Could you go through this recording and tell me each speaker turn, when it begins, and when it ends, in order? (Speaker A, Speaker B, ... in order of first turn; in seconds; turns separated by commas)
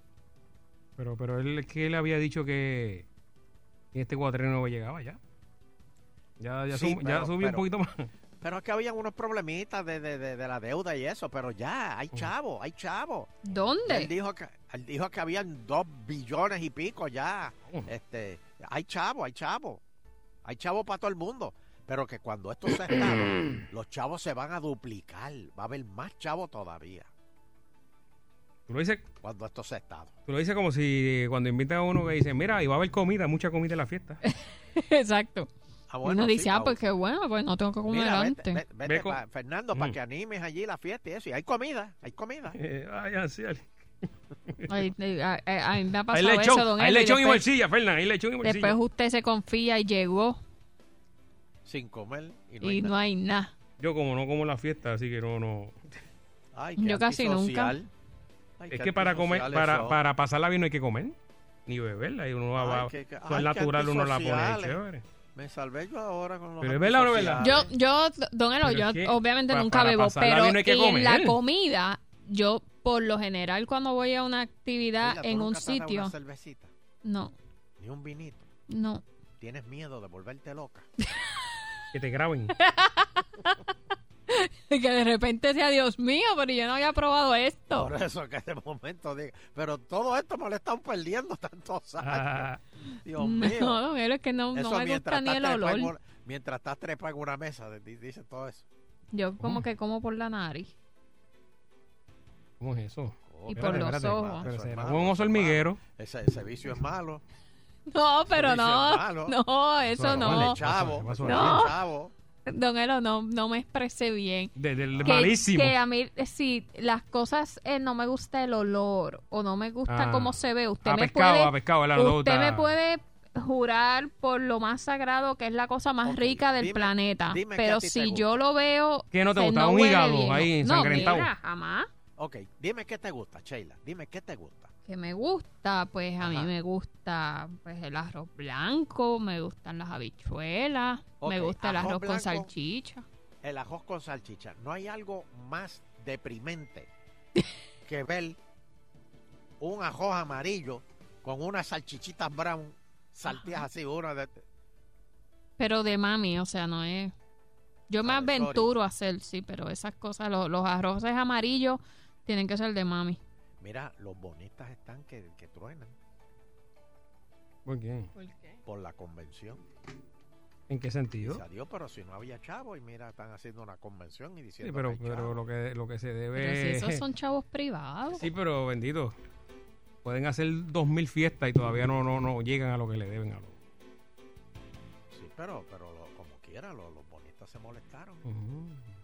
Speaker A: 1.0-3.0, Speaker A: 3.9-5.2, Speaker A: 6.4-8.1, Speaker B: 6.7-7.6, Speaker B: 8.4-13.3, Speaker C: 13.4-14.1, Speaker B: 13.9-19.8, Speaker B: 20.4-27.1, Speaker A: 28.7-29.0, Speaker B: 29.2-30.1, Speaker A: 30.3-34.2, Speaker C: 34.4-35.5, Speaker B: 35.9-36.8, Speaker C: 36.0-38.6, Speaker B: 37.9-42.6, Speaker A: 38.8-39.2, Speaker A: 42.5-44.7, Speaker C: 44.7-47.4, Speaker A: 46.1-48.8, Speaker C: 48.4-50.4, Speaker B: 51.6-52.9, Speaker C: 52.6-53.5, Speaker A: 53.8-55.8, Speaker B: 56.5-57.9, Speaker C: 56.8-57.8, Speaker B: 58.6-60.0, Speaker A: 58.7-61.1, Speaker A: 61.7-65.0, Speaker B: 62.5-64.8, Speaker B: 65.3-67.7, Speaker A: 66.6-67.4, Speaker C: 67.4-76.1, Speaker A: 68.6-71.3, Speaker B: 75.0-76.7, Speaker C: 77.0-77.3, Speaker B: 77.8-78.5, Speaker C: 78.7-79.0, Speaker B: 79.4-80.9, Speaker A: 81.9-82.5, Speaker C: 82.6-83.7, Speaker C: 84.3-87.9, Speaker B: 87.7-92.5, Speaker A: 92.0-92.6, Speaker B: 93.0-93.8, Speaker C: 93.2-95.9, Speaker B: 94.5-98.7, Speaker C: 99.1-100.7, Speaker A: 99.4-99.6, Speaker A: 102.6-105.8, Speaker B: 103.2-107.2, Speaker C: 103.5-104.4, Speaker C: 107.9-110.6, Speaker B: 108.3-109.3, Speaker A: 109.8-111.7, Speaker B: 110.0-112.1, Speaker C: 111.2-111.8, Speaker C: 112.5-114.5, Speaker A: 114.5-115.8, Speaker B: 114.9-115.3, Speaker C: 115.0-131.9, Speaker A: 119.9-122.7, Speaker B: 126.0-128.4, Speaker A: 129.1-131.3, Speaker B: 132.2-134.7, Speaker C: 134.8-143.1, Speaker B: 136.2-136.5, Speaker B: 141.2-142.5, Speaker B: 143.4-146.9, Speaker B: 147.8-148.4, Speaker B: 149.6-154.4, Speaker C: 153.3-153.6, Speaker C: 155.6-157.1, Speaker C: 157.9-163.2, Speaker B: 158.0-158.7, Speaker B: 163.6-165.9, Speaker A: 167.7-168.1, Speaker C: 168.2-168.6, Speaker B: 168.7-169.6, Speaker A: 170.7-171.4, Speaker B: 171.2-175.4, Speaker A: 174.6-177.0, Speaker C: 176.3-178.3, Speaker A: 178.1-179.1, Speaker A: 180.0-183.5, Speaker B: 185.1-188.3, Speaker A: 188.2-188.9